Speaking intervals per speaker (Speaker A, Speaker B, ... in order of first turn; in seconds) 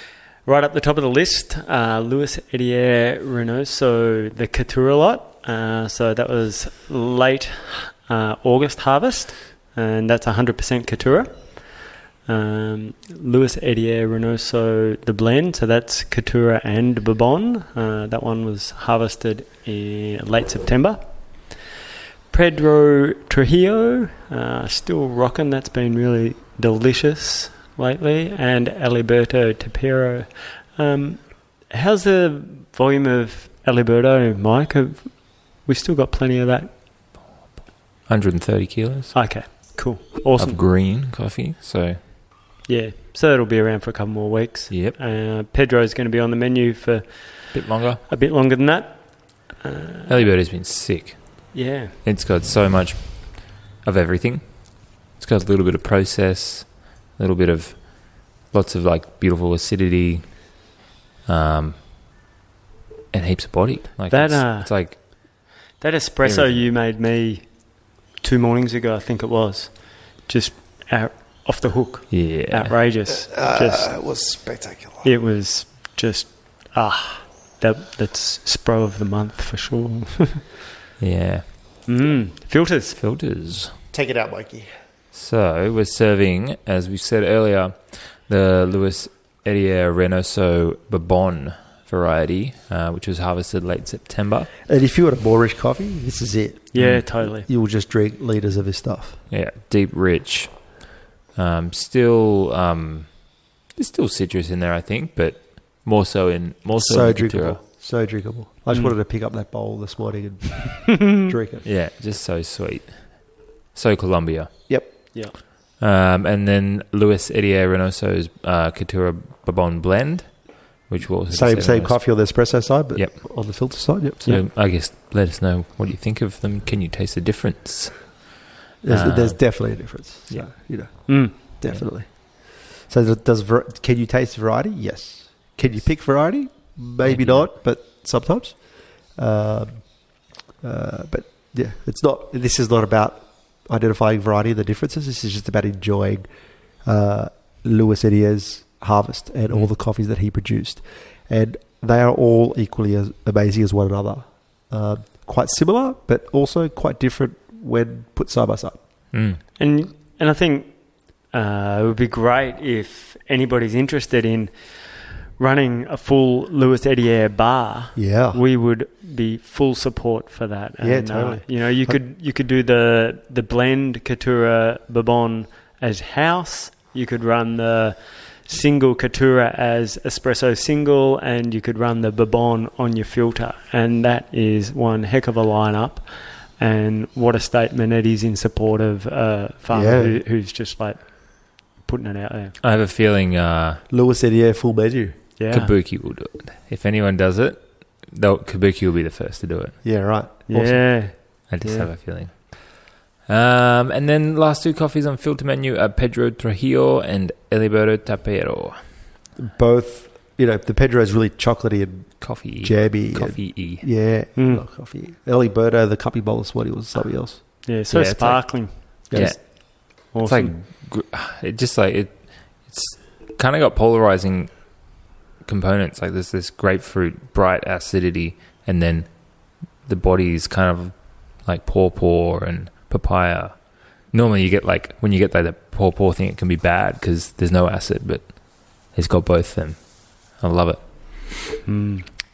Speaker A: 0.4-21.6, 22.3-36.7, 39.1-40.6, 42.6-50.3, 51.5-52.0, 64.1-73.9, 75.0-80.5, 81.9-83.0, 96.7-97.5, 131.1-131.3, 159.6-192.6, 195.4-195.7, 200.5-201.9, 214.3-214.6, 217.6-220.5, 241.6-242.1
Speaker B: 38.1-39.1, 40.4-42.0, 44.7-45.0, 47.5-48.0, 50.1-60.7, 61.2-61.9, 63.1-65.0, 66.2-66.6, 72.1-72.8, 81.0-81.8, 83.0-83.8, 85.1-94.5, 96.8-97.1, 99.3-107.6, 111.6-115.1, 115.8-128.3, 128.9-130.5, 137.0-137.5, 159.1-159.4, 192.6-193.8, 195.5-199.8, 201.5-209.0, 212.2-213.9, 217.9-241.4
Speaker C: 73.1-75.1, 83.9-84.7, 94.7-99.2, 106.8-111.6, 114.7-115.1, 121.3-124.4, 128.8-146.3, 146.8-158.8, 167.9-168.4, 170.8-172.0, 189.7-190.2, 193.9-195.2, 199.8-201.1, 209.3-217.5, 219.1-219.4